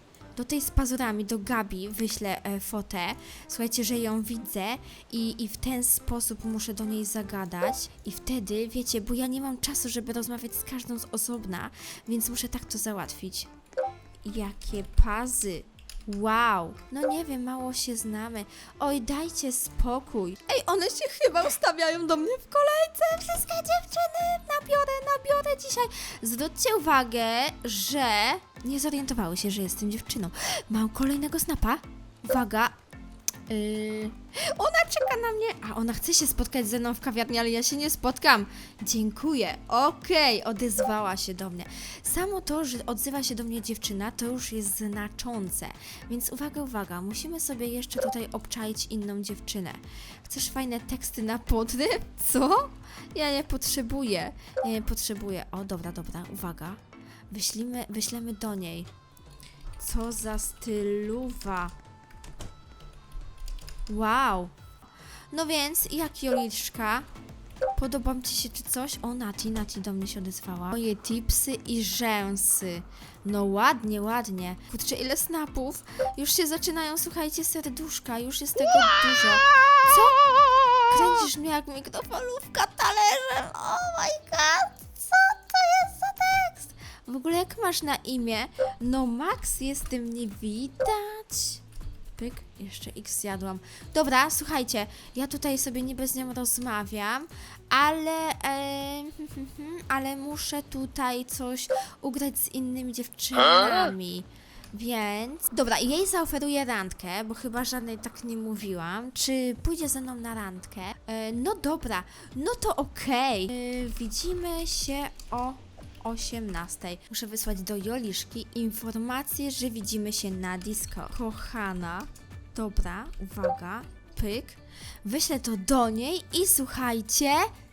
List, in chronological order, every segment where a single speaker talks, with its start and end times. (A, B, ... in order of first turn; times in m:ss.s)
0:00.4-0:13.5 A
0:14.2-0:32.7 A
0:33.5-0:56.8 A
0:57.3-0:58.9 A
0:59.8-1:01.7 A
1:03.9-1:04.5 A
1:05.3-1:07.1 A
1:07.8-1:31.6 A
1:32.2-2:07.5 A